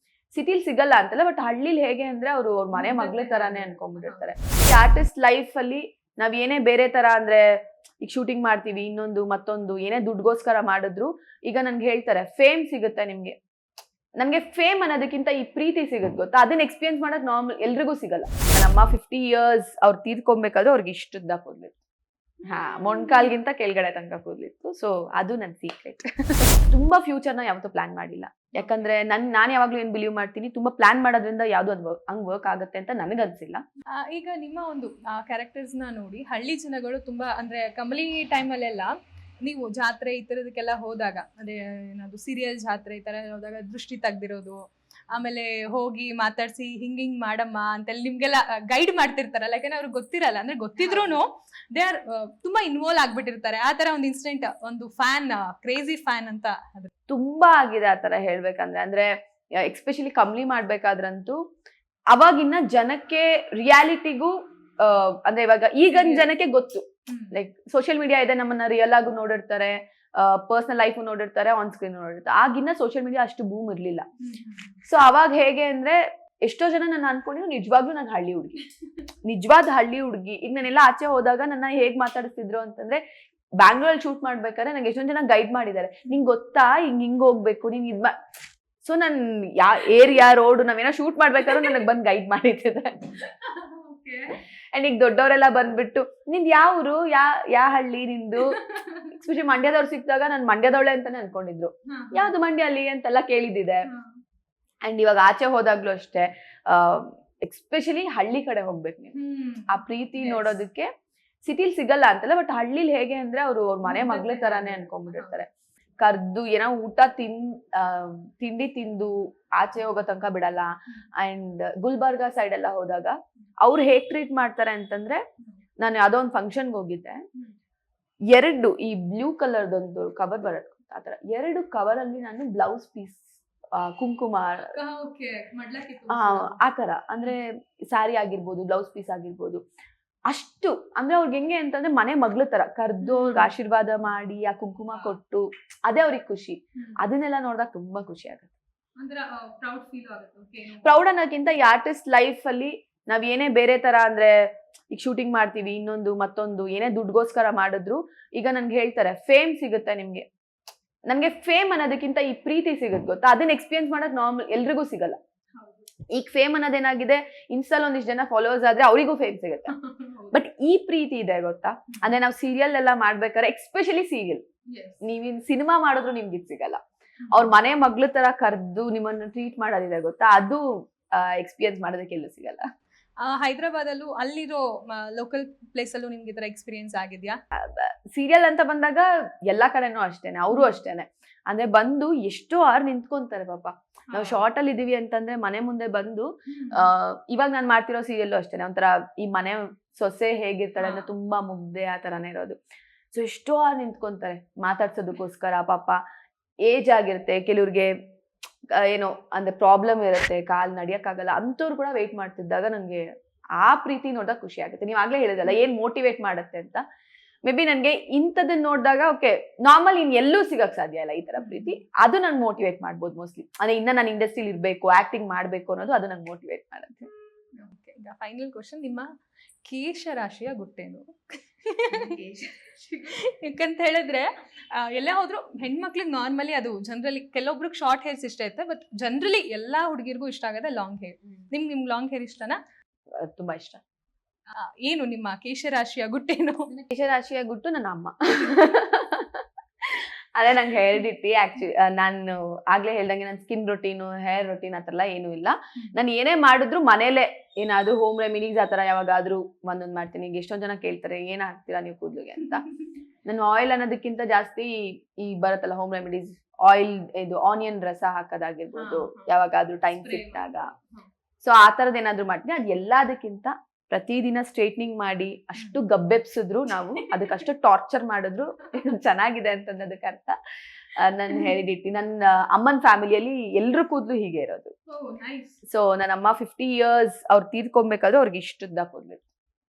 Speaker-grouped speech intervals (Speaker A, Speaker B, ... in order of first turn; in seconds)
Speaker A: 0.3-7.4, 8.0-13.3, 14.2-21.8, 22.5-33.6, 50.8-51.2, 57.1-61.4, 62.1-74.0, 74.8-78.6, 79.2-83.0, 83.6-88.1, 88.8-93.2, 94.7-98.5, 99.1-103.9, 104.8-109.1, 109.7-110.9, 111.4-115.5, 116.0-125.2, 125.8-127.2, 128.3-134.7, 136.1-139.6, 140.3-148.5, 150.8-154.3, 154.9-160.2, 161.1-165.2, 166.1-169.7, 170.3-174.4, 175.0-176.8, 177.3-182.6, 187.6-202.6, 203.1-206.0, 206.6-207.9, 208.7-213.0, 213.6-216.8, 217.4-227.1, 243.2-243.8, 246.8-262.6, 263.2-270.7, 271.4-280.4, 280.9-284.7, 285.7-289.2
Speaker B: 2.7-4.2, 22.5-23.3, 34.0-56.9, 65.9-66.3, 67.1-67.3, 74.2-74.7, 91.5-91.8, 93.2-94.3, 98.4-99.1, 101.9-102.4, 103.8-104.2, 109.1-110.6, 113.8-115.4, 134.7-136.6, 143.0-143.5, 144.9-145.2, 146.8-147.0, 149.0-150.9, 165.5-165.9, 169.7-170.4, 174.7-175.0, 177.2-177.6, 183.2-187.3, 190.5-190.8, 194.1-194.4, 196.5-196.9, 200.8-201.1, 221.4-221.8, 227.6-229.1, 229.6-242.6, 244.6-246.7, 268.7-269.4, 269.9-271.1, 276.9-277.4, 284.9-285.6